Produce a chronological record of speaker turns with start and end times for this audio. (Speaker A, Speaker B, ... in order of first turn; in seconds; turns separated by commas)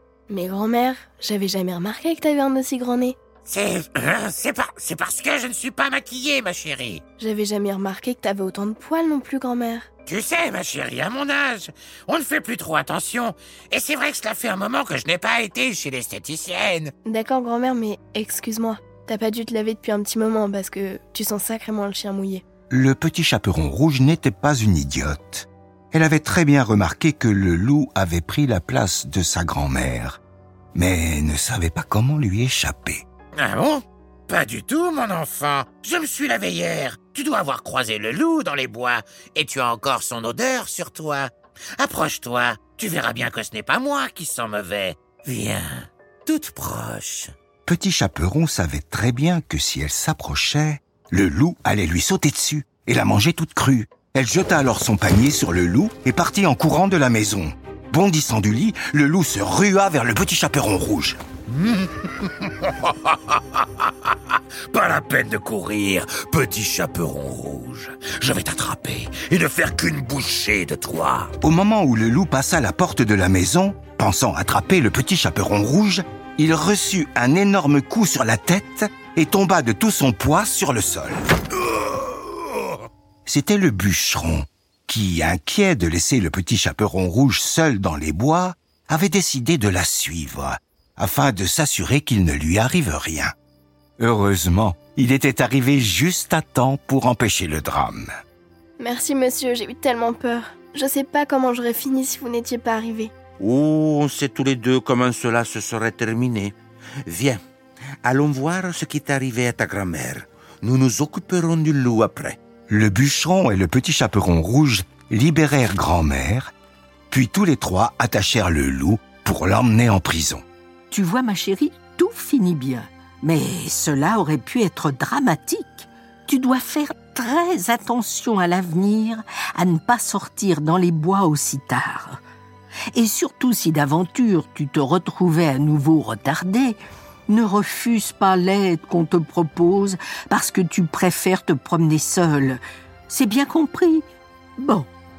Speaker A: 0.3-3.1, Speaker B: 3.4-7.0, Speaker A: 7.2-9.9, Speaker B: 10.1-16.9, Speaker A: 17.0-22.4, Speaker C: 22.7-30.2, Speaker C: 30.7-33.0, Speaker B: 33.4-47.3, Speaker C: 47.6-61.2, Speaker B: 61.6-63.9, Speaker D: 64.7-71.3, Speaker C: 71.4-81.2, Speaker C: 83.2-93.3, Speaker C: 94.0-98.1, Speaker A: 98.8-103.1, Speaker E: 103.4-106.5, Speaker E: 107.0-107.4, Speaker E: 108.0-112.4, Speaker C: 112.7-116.5, Speaker C: 117.1-120.4, Speaker F: 120.9-132.2, Speaker F: 132.9-144.0, Speaker F: 144.6-144.9